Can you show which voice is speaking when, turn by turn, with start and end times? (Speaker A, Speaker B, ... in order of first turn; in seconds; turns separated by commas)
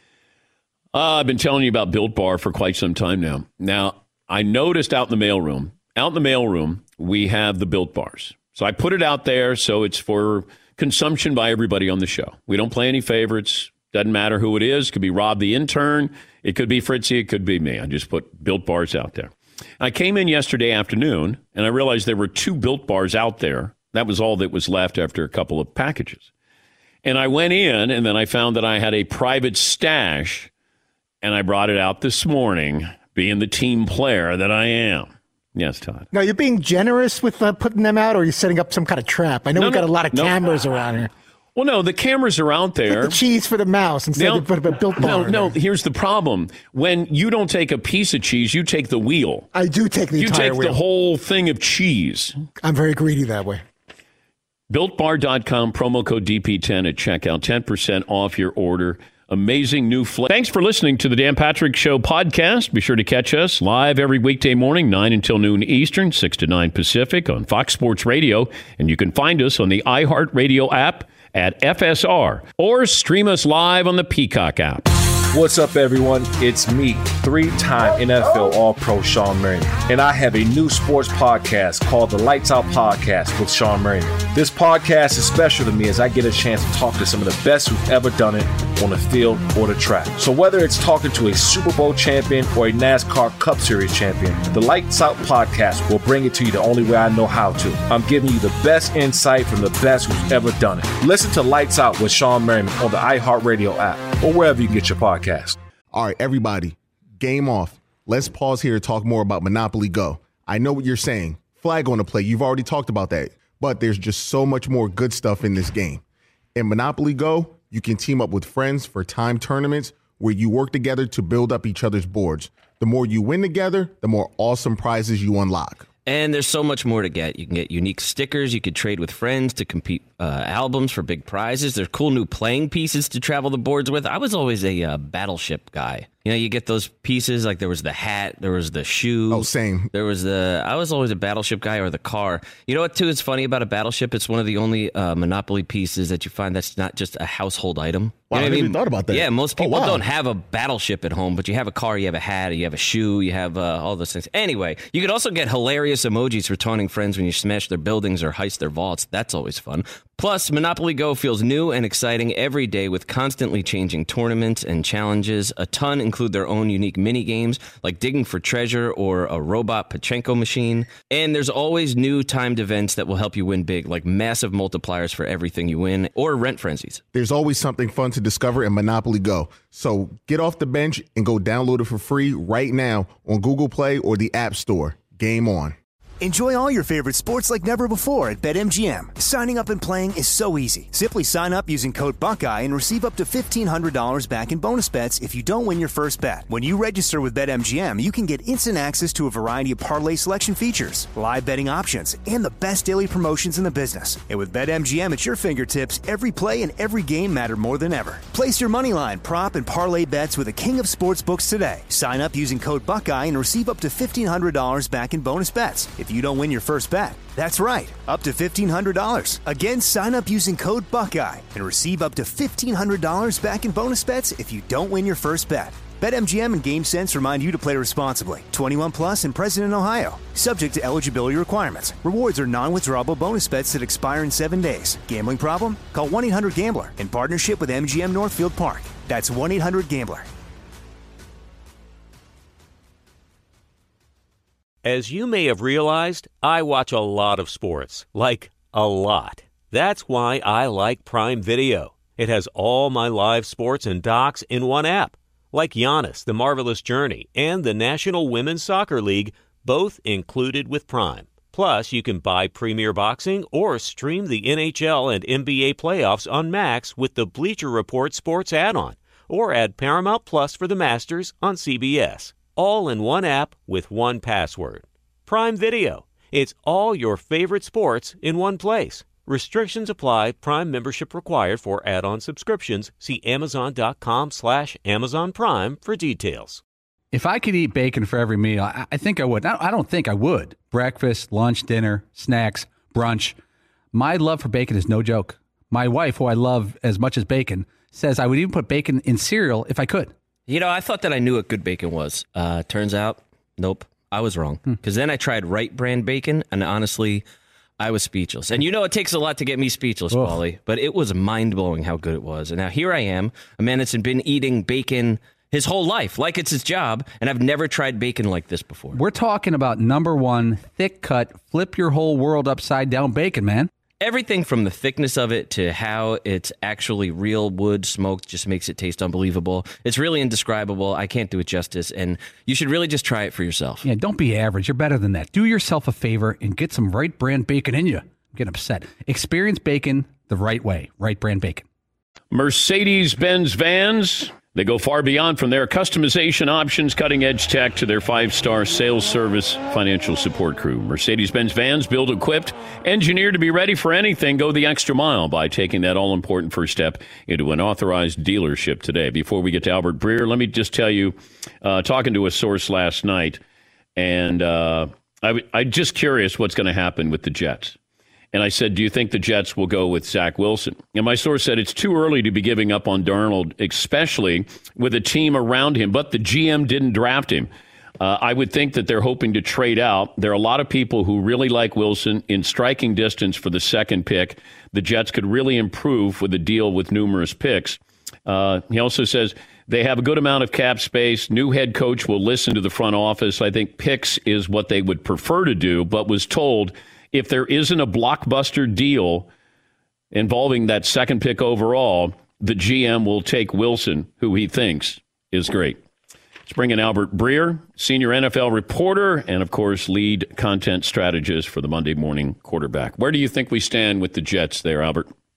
Speaker A: 0.9-26.3, Speaker A: 27.0-30.5, Speaker A: 31.2-36.0, Speaker B: 36.1-41.1, Speaker A: 39.5-40.4, Speaker A: 41.5-43.2, Speaker B: 42.9-45.5, Speaker A: 44.1-49.5, Speaker B: 49.5-50.8, Speaker A: 50.1-52.3, Speaker B: 52.6-53.6, Speaker A: 54.7-74.9, Speaker C: 75.3-105.6, Speaker D: 105.9-116.0, Speaker D: 116.5-125.8, Speaker E: 126.0-177.0, Speaker D: 139.3-139.9, Speaker D: 148.3-150.0, Speaker D: 177.1-185.7, Speaker F: 186.2-240.3, Speaker G: 244.8-286.6, Speaker H: 287.1-293.4, Speaker H: 293.9-300.1, Speaker E: 300.5-307.2, Speaker E: 307.8-319.0, Speaker H: 318.9-323.7, Speaker E: 324.0-333.8, Speaker H: 333.8-341.6, Speaker A: 342.3-363.4, Speaker A: 363.9-367.8, Speaker A: 368.3-377.5, Speaker A: 378.0-399.3, Speaker A: 400.1-405.8, Speaker A: 406.4-415.1